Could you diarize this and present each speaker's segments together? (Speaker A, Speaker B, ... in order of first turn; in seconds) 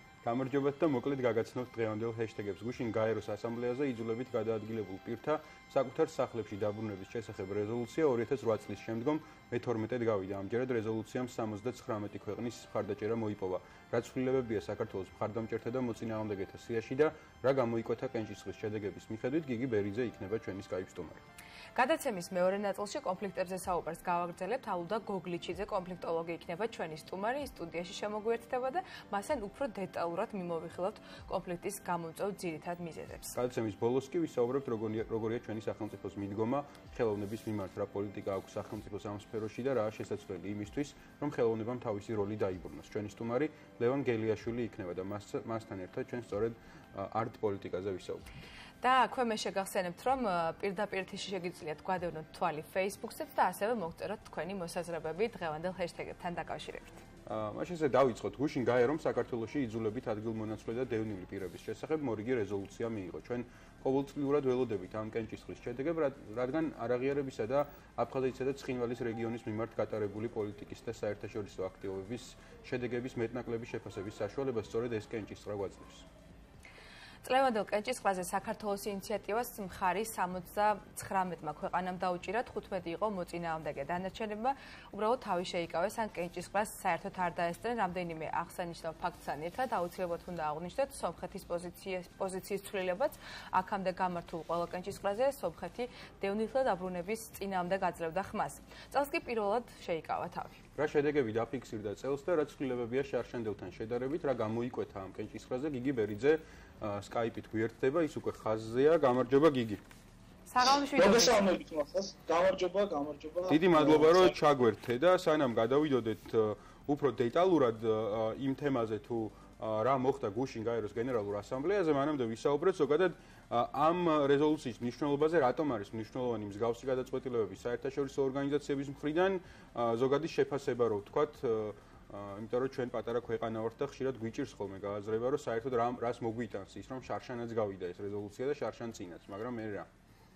Speaker A: 0.2-21.2, 33.3-48.3, 57.3-76.1, 100.8-109.8, 113.5-139.9
Speaker B: 21.7-33.4, 48.8-57.0, 77.2-100.6, 110.5-111.4
Speaker C: 111.0-114.3